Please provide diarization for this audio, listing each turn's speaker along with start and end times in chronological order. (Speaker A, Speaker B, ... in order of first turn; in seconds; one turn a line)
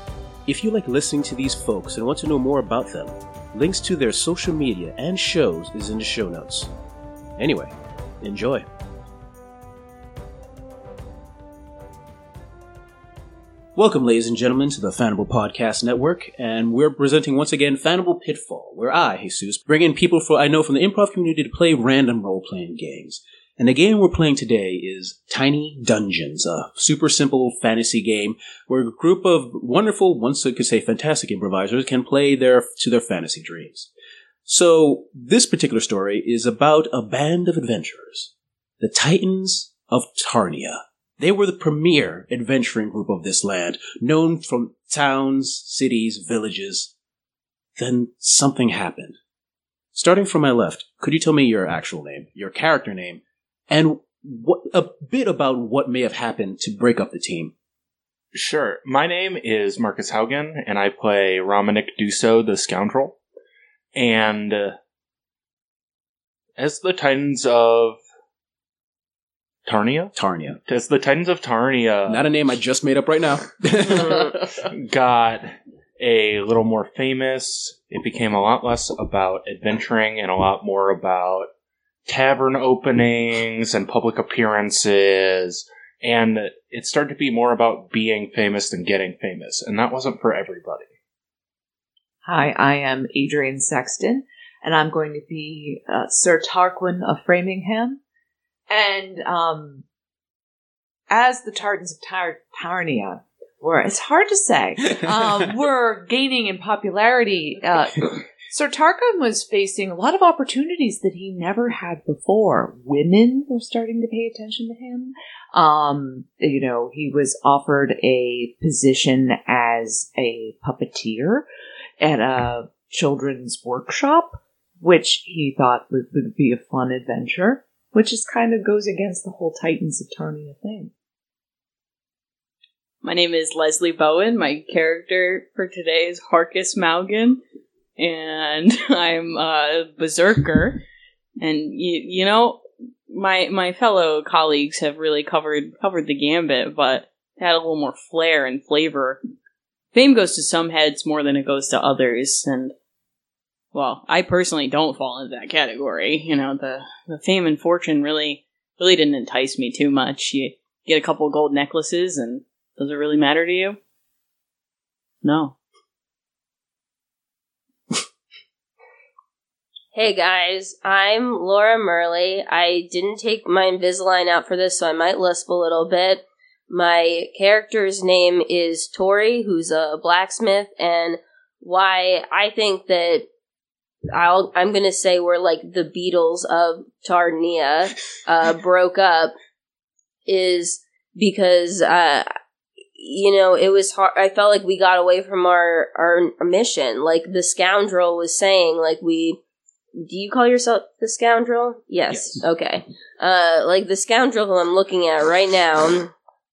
Speaker A: 0.5-6.7
Speaker A: 7.4-8.7
Speaker A: 13.8-33.9
Speaker A: 34.5-46.9
Speaker A: 47.8-49.2
Speaker A: 49.9-57.5
Speaker B: 58.3-63.2
Speaker B: 63.9-64.8
Speaker B: 66.6-68.0
Speaker B: 69.7-70.1
Speaker A: 70.2-70.6
Speaker B: 70.7-72.3
Speaker A: 72.1-74.3
Speaker B: 74.1-81.5
Speaker B: 82.0-90.8
Speaker C: 92.2-98.0
Speaker C: 98.7-99.8
Speaker C: 101.1-121.5
Speaker C: 122.0-130.9
Speaker D: 133.0-137.4
Speaker D: 138.0-140.8
Speaker D: 141.4-149.2
Speaker D: 149.9-152.7
Speaker D: 153.7-163.8
Speaker D: 165.2-165.5
Speaker E: 169.9-183.2
Speaker E: 184.1-189.3
Speaker E: 190.3-192.3
Speaker E: 193.0-199.4
Speaker E: 199.9-206.1
Speaker A: 202.1-202.4